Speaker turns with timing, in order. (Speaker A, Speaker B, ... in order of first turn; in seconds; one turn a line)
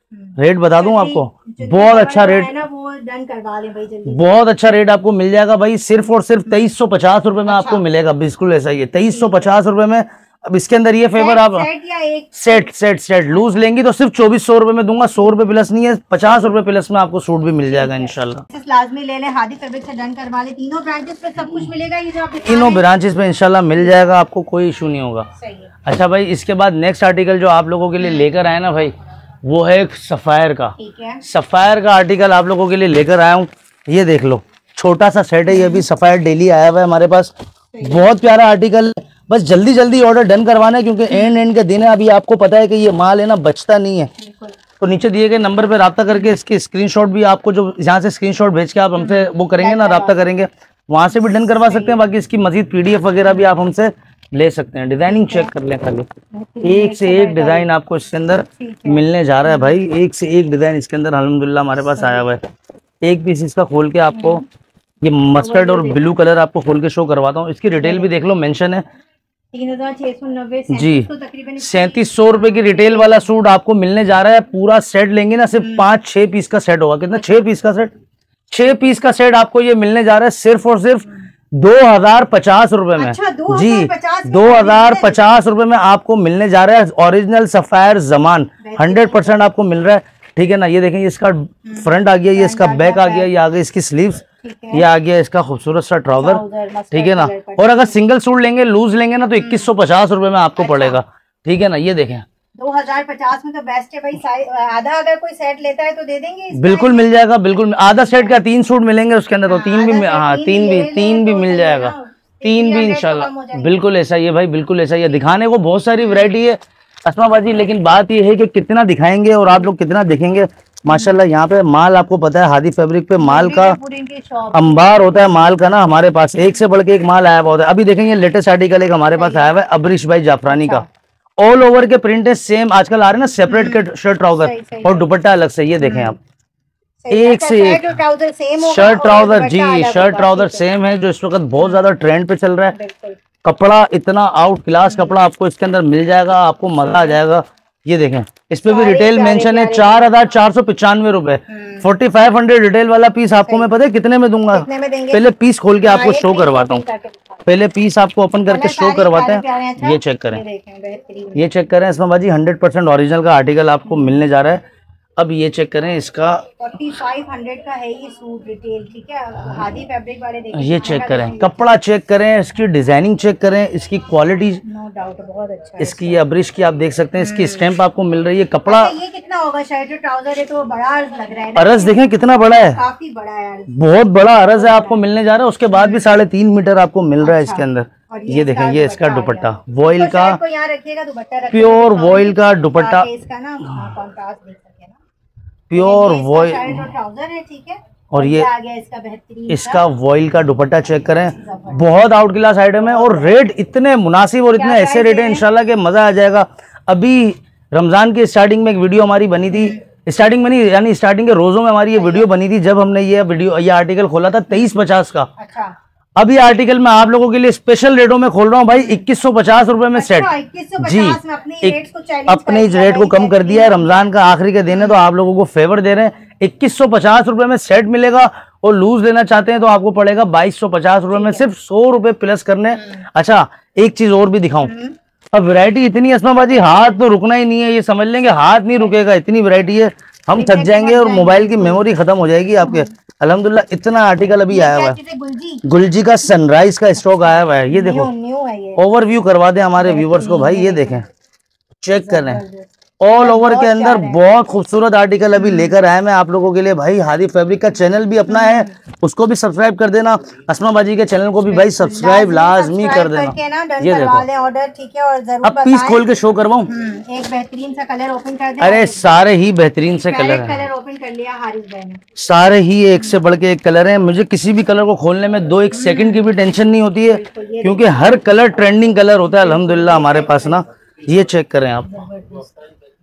Speaker A: 0.1-4.2
Speaker B: 0.4-2.5
Speaker B: 4.1-11.7
Speaker A: 7.5-7.8
Speaker A: 11.1-12.6
Speaker B: 12.3-18.4
Speaker A: 17.7-22.9
Speaker B: 22.4-25.3
Speaker A: 25.4-25.7
Speaker B: 25.9-44.1
Speaker A: 28.0-28.3
Speaker A: 30.8-31.2
Speaker A: 35.5-35.9
Speaker A: 37.8-38.0
Speaker A: 41.1-41.4
Speaker A: 44.2-44.6
Speaker B: 44.8-56.1
Speaker A: 49.0-50.2
Speaker A: 51.1-52.0
Speaker A: 55.1-55.5
Speaker A: 56.3-57.7
Speaker B: 56.6-62.4
Speaker A: 58.5-59.8
Speaker A: 61.9-62.4
Speaker B: 63.0-64.4
Speaker A: 64.1-64.4
Speaker B: 65.0-68.8
Speaker A: 65.4-66.1
Speaker A: 67.8-68.1
Speaker A: 69.5-73.3
Speaker B: 70.7-71.1
Speaker B: 71.6-77.9
Speaker A: 75.6-75.9
Speaker B: 78.5-102.2
Speaker A: 83.0-85.2
Speaker A: 88.6-89.4
Speaker A: 91.6-93.3
Speaker A: 94.4-94.9
Speaker A: 96.2-98.0
Speaker A: 99.4-99.7
Speaker A: 100.6-101.0
Speaker A: 102.5-107.2
Speaker B: 106.5-123.8
Speaker A: 109.5-113.9
Speaker A: 116.0-116.3
Speaker A: 120.9-121.2
Speaker A: 123.2-125.5
Speaker B: 124.5-130.9
Speaker A: 129.1-129.5
Speaker A: 130.5-130.8
Speaker B: 131.4-136.2
Speaker A: 133.5-133.8
Speaker A: 134.4-135.1
Speaker A: 135.8-136.2
Speaker A: 137.0-140.7
Speaker B: 137.1-137.9
Speaker B: 138.6-142.8
Speaker A: 142.7-143.2
Speaker B: 143.4-156.8
Speaker A: 144.9-145.1
Speaker A: 148.6-150.2
Speaker A: 151.5-151.9
Speaker A: 153.4-153.7
Speaker A: 154.4-155.3
Speaker A: 155.8-157.4
Speaker B: 157.5-160.4
Speaker A: 158.5-161.5
Speaker B: 161.3-164.6
Speaker B: 165.2-166.4
Speaker A: 166.6-171.7
Speaker B: 170.5-174.6
Speaker A: 174.6-176.2
Speaker B: 175.8-179.0
Speaker A: 177.2-177.7
Speaker A: 178.7-183.8
Speaker B: 181.5-182.8
Speaker B: 183.7-190.4
Speaker A: 184.5-185.0
Speaker A: 185.7-186.1
Speaker A: 187.2-195.0
Speaker B: 191.5-193.1
Speaker B: 195.7-196.8
Speaker A: 195.8-199.8
Speaker B: 198.1-198.5
Speaker B: 199.5-215.3
Speaker A: 201.3-201.9
Speaker A: 202.9-203.3
Speaker A: 204.5-205.4
Speaker A: 209.5-209.8
Speaker A: 211.9-212.3
Speaker A: 215.4-215.8
Speaker B: 216.2-221.8
Speaker A: 218.8-219.1
Speaker A: 219.9-224.1
Speaker B: 222.3-234.7
Speaker A: 224.7-225.0
Speaker A: 231.1-231.4
Speaker A: 234.6-235.0
Speaker B: 235.3-245.0
Speaker A: 240.3-241.9
Speaker A: 242.6-242.9
Speaker A: 244.5-245.6
Speaker B: 245.6-248.1
Speaker A: 247.7-248.8
Speaker B: 248.8-251.1
Speaker A: 249.8-251.0
Speaker B: 251.8-252.4
Speaker A: 252.0-254.2
Speaker B: 253.0-264.2
Speaker A: 255.3-255.8
Speaker A: 258.3-258.7
Speaker A: 261.5-266.1
Speaker B: 265.4-266.7
Speaker A: 266.6-269.1
Speaker B: 268.6-270.6
Speaker A: 269.9-272.0
Speaker B: 272.1-282.1
Speaker A: 275.7-276.3
Speaker A: 277.1-280.6
Speaker A: 281.9-282.5